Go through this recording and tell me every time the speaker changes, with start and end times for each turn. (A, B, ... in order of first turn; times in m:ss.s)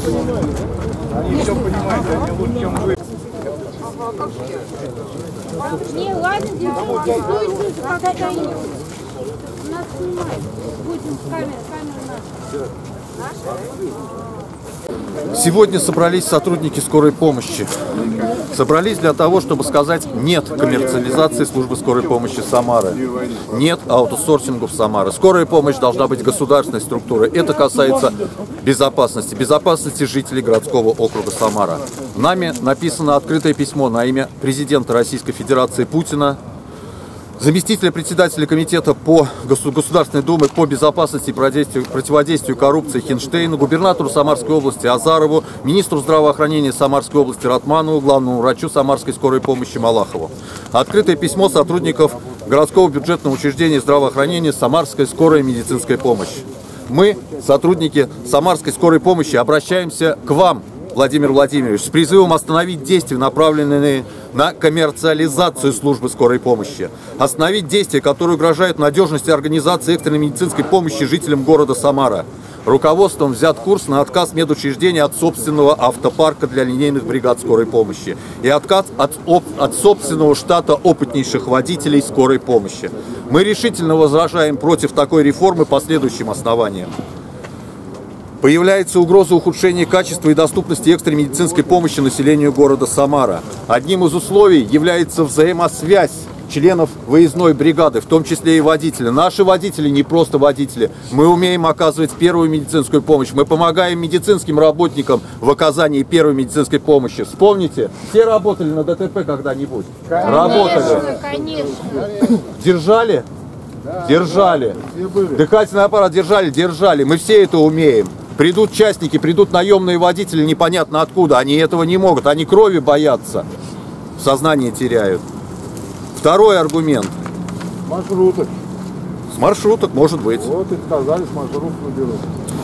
0:05.7-0:08.7 A
0:09.6-0:12.2 A
0:15.3-0:17.7 B
0:18.4-0:36.4 B
0:37.4-1:26.9 B
1:28.4-1:51.2 B
1:50.2-1:52.2 A
1:52.4-1:53.3 B
1:54.0-2:03.4 B
2:04.2-2:05.2 B
2:06.2-2:07.2 B
2:07.9-2:08.5 C
2:09.3-2:10.6 B
2:10.5-2:12.2 C